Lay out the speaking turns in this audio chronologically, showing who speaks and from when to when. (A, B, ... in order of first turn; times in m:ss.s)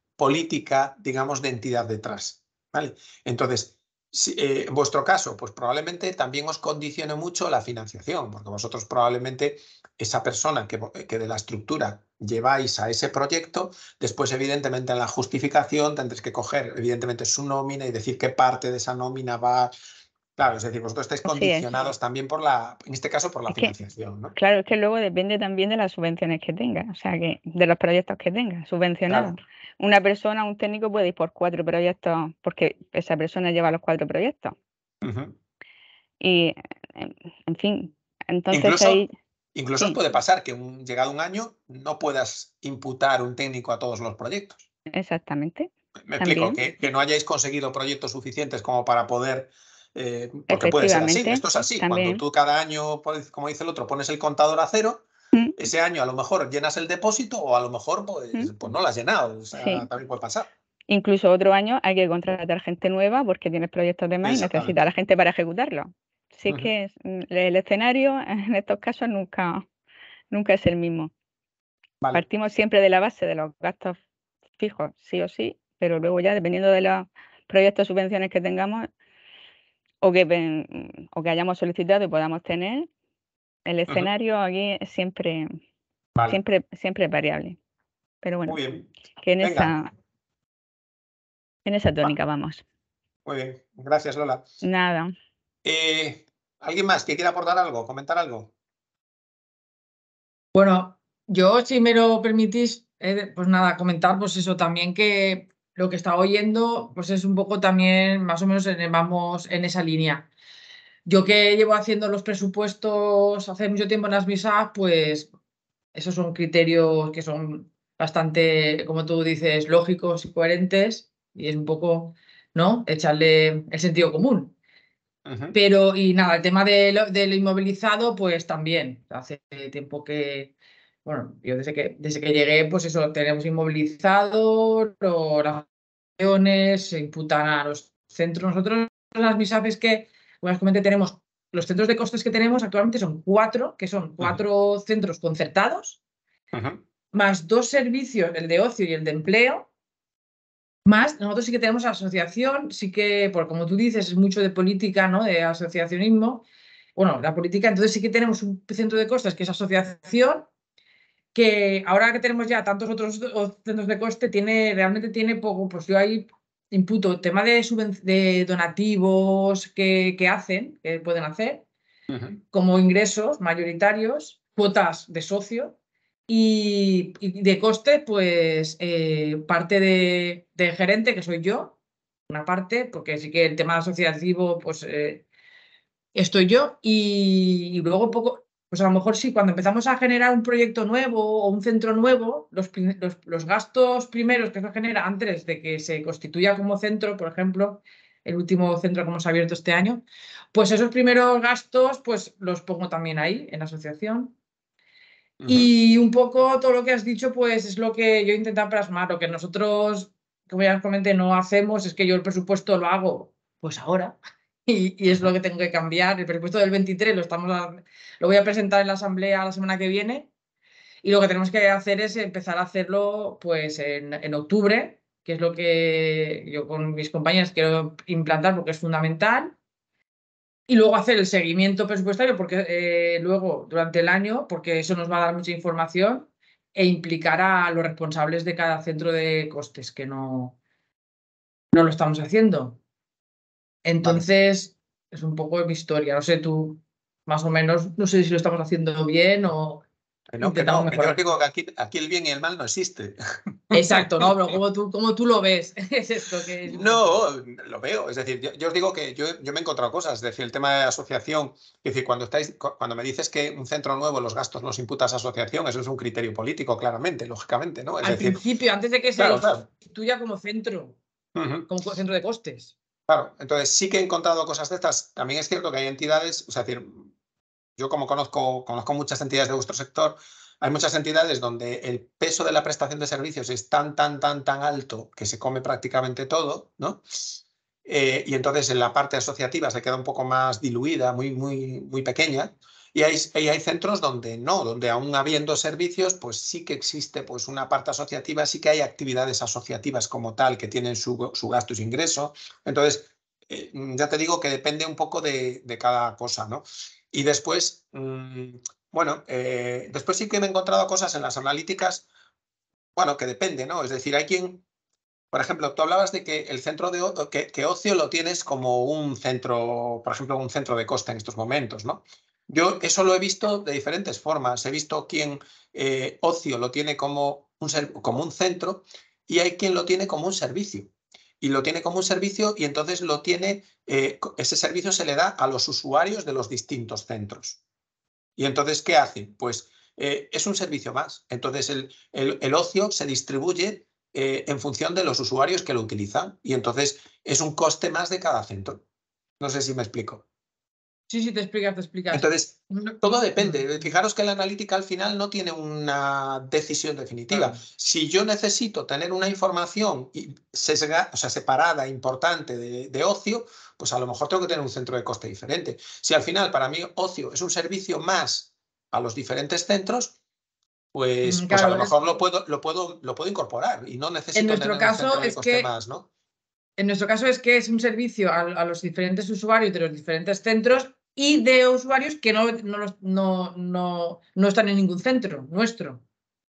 0:00.2-0:19.7 A
0:20.4-0:24.4 A
0:21.3-0:21.7 B
0:24.4-0:34.6 B
0:29.1-0:29.3 A
0:35.0-0:35.4 A
0:36.2-0:39.1 B
0:38.5-0:39.0 A
0:39.6-0:44.7 A
0:44.9-0:46.6 B
0:46.1-1:00.5 A
0:50.5-0:52.2 B
0:59.5-0:59.8 B
1:00.9-1:09.6 B
1:04.2-1:04.8 A
1:06.5-1:06.7 A
1:10.3-1:11.1 B
1:12.1-1:14.0 B
1:14.6-1:18.9 B
1:20.0-1:22.9 B
1:23.6-1:25.5 B
1:26.3-1:27.6 B
1:28.2-1:28.6 B
1:28.5-1:29.7 A
1:29.2-1:29.9 B
1:31.6-1:32.6 B
1:33.2-1:34.5 A
1:34.6-1:35.1 B
1:35.6-1:38.5 A
1:40.5-1:50.3 C
1:51.0-1:55.3 C
1:55.9-2:04.6 C
2:05.3-2:05.6 A
2:05.5-2:10.5 C
2:11.0-2:15.7 C
2:16.2-2:26.0 C
2:26.5-2:26.8 A
2:27.1-2:29.7 C
2:30.8-2:36.4 C
2:37.0-2:40.5 C
2:41.4-2:51.6 C
2:52.1-2:52.4 A
2:52.5-2:55.8 C
2:56.3-3:01.8 C
3:02.3-3:05.3 C
3:06.1-3:24.4 C
3:25.4-3:25.7 A
3:25.5-3:40.3 C
3:35.1-3:35.4 A
3:41.0-3:49.6 C
3:50.7-4:00.6 C
4:01.7-4:02.8 C
4:03.8-4:09.8 C
4:04.0-4:04.3 A
4:10.3-4:13.2 A
4:10.4-4:11.2 C
4:13.7-4:14.6 A
4:13.7-4:17.1 C
4:16.6-4:28.4 A
4:28.0-4:31.0 C
4:29.2-4:29.6 A
4:31.4-4:31.7 A
4:31.7-4:32.7 C
4:33.1-4:37.1 A
4:37.8-5:12.1 A
5:13.0-5:14.6 A
5:15.3-5:37.6 A
5:38.4-5:48.8 A
5:49.4-5:50.2 A
5:51.1-5:53.7 C
5:52.1-6:10.2 A
6:10.9-6:16.1 A
6:11.2-6:11.9 C
6:14.4-6:15.7 C
6:16.8-6:26.0 C